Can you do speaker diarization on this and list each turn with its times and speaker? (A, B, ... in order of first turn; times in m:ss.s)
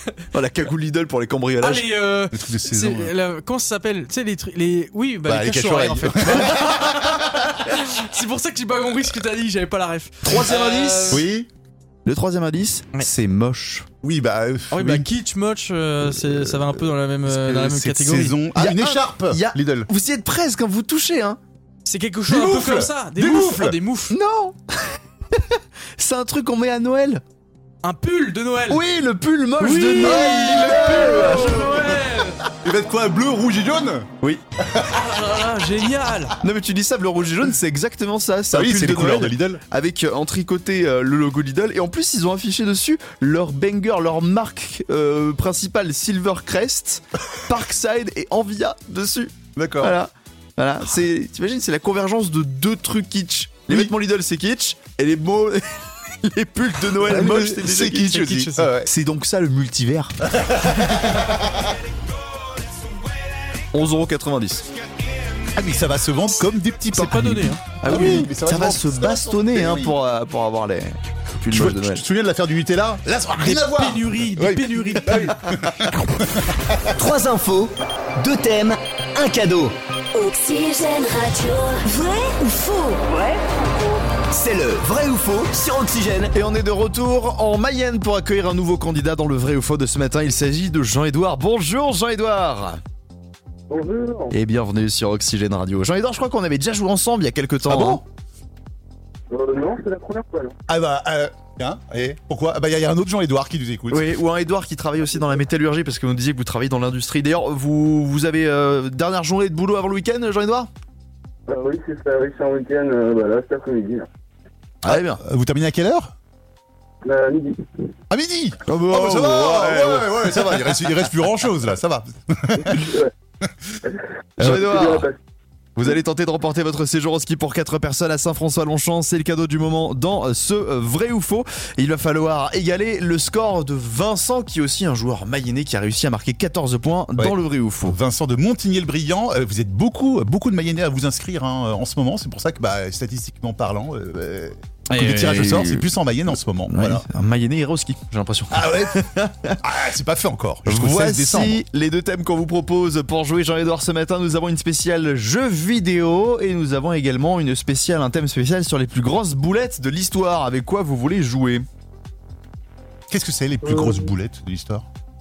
0:00.3-0:01.9 A
0:01.6-0:11.3 B
0:02.3-0:03.1 C
0:05.2-0:07.3 C
0:10.2-0:11.2 A
0:11.1-0:11.5 C
0:12.1-0:13.9 A
0:14.0-0:15.1 C
0:14.7-0:18.4 B
0:16.0-0:19.9 C
0:18.6-0:21.4 A
0:21.8-0:24.1 B
0:22.3-0:23.8 C
0:24.1-0:27.2 A
0:27.8-0:28.8 B
0:28.7-0:31.7 A
0:29.6-0:32.4 B
0:30.0-0:35.0 C
0:34.8-0:36.4 B
0:36.4-0:58.3 A
0:38.5-0:39.6 C
0:49.6-0:50.0 C
0:53.7-0:53.9 C
0:57.0-0:58.9 C
0:58.1-0:58.7 B
0:58.8-1:00.3 A
1:00.3-1:01.6 C
1:03.7-1:04.7 A
1:05.6-1:10.0 C
1:06.9-1:07.6 B
1:07.8-1:12.0 A
1:11.5-1:16.9 C
1:13.4-1:15.4 B
1:17.0-1:19.8 D
1:20.1-1:23.4 E
1:24.3-1:26.3 D
1:26.3-1:32.8 A
1:33.7-1:34.3 F
1:34.3-1:38.0 A
1:37.7-1:38.0 C
1:39.3-1:40.6 F
1:40.7-1:44.1 C
1:43.9-1:50.7 A
1:51.5-1:54.1 F
1:54.8-1:55.2 A
1:54.8-1:56.1 C
1:57.0-1:57.9 F
1:58.1-2:02.9 C
1:58.6-2:01.0 A
2:02.6-2:03.1 F
2:03.9-2:05.2 F
2:04.4-2:05.1 A
2:04.4-2:04.7 C
2:05.8-2:18.0 A
2:17.2-2:27.1 C
2:24.9-2:25.9 A
2:26.7-2:29.6 A
2:28.5-2:29.0 C
2:29.6-2:31.6 C
2:30.7-2:41.6 A
2:43.1-2:44.8 C